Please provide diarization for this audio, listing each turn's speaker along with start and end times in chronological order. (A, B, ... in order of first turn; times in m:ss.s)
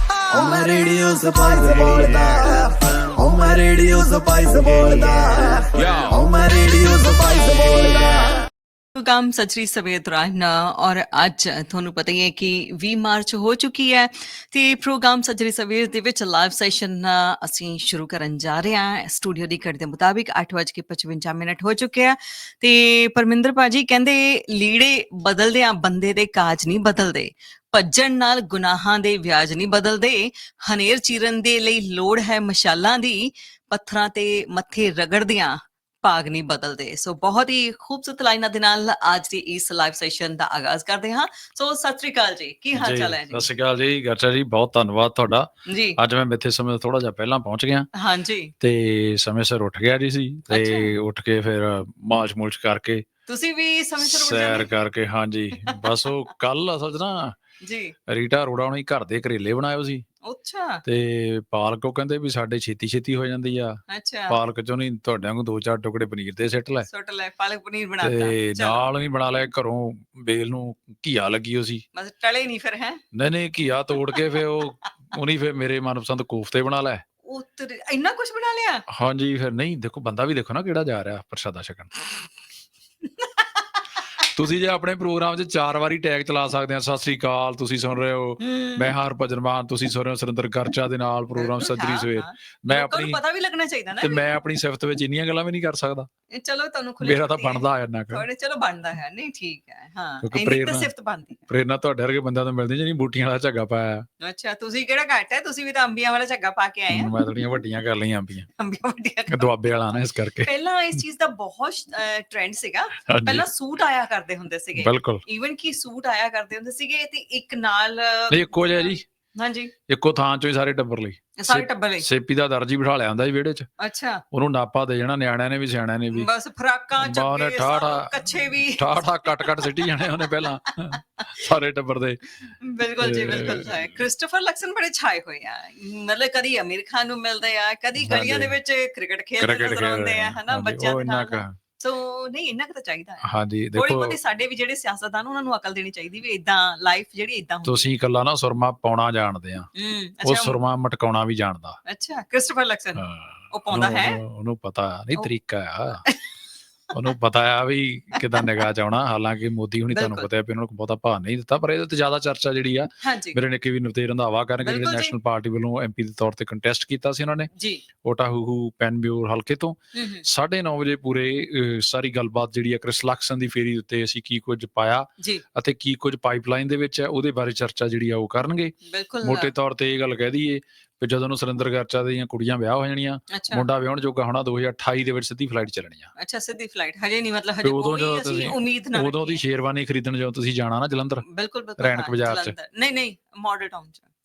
0:00.3-0:08.4 A
0:05.8-0:06.2 B
0:08.9-0:43.5 C
0:42.7-0:47.9 B
0:45.7-0:46.0 C
0:47.9-0:48.5 C
0:48.6-0:53.0 B
0:50.5-0:50.9 C
0:53.3-0:54.7 C
0:54.0-0:57.4 B
0:55.6-0:56.1 C
0:57.6-0:57.9 C
0:58.1-1:00.0 B
1:00.2-1:00.8 C
1:00.8-1:06.9 B
1:03.9-1:04.4 C
1:06.9-1:08.8 C
1:08.0-1:11.8 B
1:11.9-1:13.0 C
1:13.1-1:17.0 B
1:14.1-1:14.4 C
1:17.2-1:18.8 C
1:18.9-1:22.0 B
1:23.0-1:23.8 C
1:24.2-1:33.2 B
1:28.4-1:28.9 C
1:31.3-1:34.3 C
1:34.0-1:36.1 B
1:36.3-1:41.4 C
1:37.0-1:38.2 B
1:40.2-1:40.9 B
1:41.5-1:44.1 B
1:44.2-1:47.2 C
1:46.9-1:48.5 B
1:48.6-1:49.6 C
1:49.3-1:50.5 B
1:50.4-1:59.7 C
1:53.0-1:53.5 B
1:54.8-1:55.2 B
1:58.3-1:59.0 B
1:59.9-2:03.7 B
2:01.4-2:02.1 C
2:03.8-2:04.2 C
2:04.3-2:06.3 B
2:06.1-2:10.6 C
2:07.0-2:14.0 B
2:12.6-2:27.9 C
2:18.0-2:18.5 B
2:19.4-2:21.5 B
2:23.2-2:24.2 B
2:27.6-2:29.7 B
2:29.7-2:30.6 C
2:30.2-2:31.8 B
2:31.8-2:34.2 C
2:33.0-2:36.0 B
2:36.9-2:47.5 B
2:38.1-2:38.5 C
2:39.9-2:40.3 C
2:43.0-2:43.4 C
2:44.6-2:45.2 C
2:47.5-2:47.8 C
2:48.0-3:06.1 B
2:49.9-2:50.2 C
2:55.2-2:55.4 C
2:58.8-2:59.5 C
3:03.3-3:03.7 C
3:06.2-3:09.4 C
3:07.6-3:11.2 B
3:11.2-3:14.0 C
3:11.8-3:12.5 B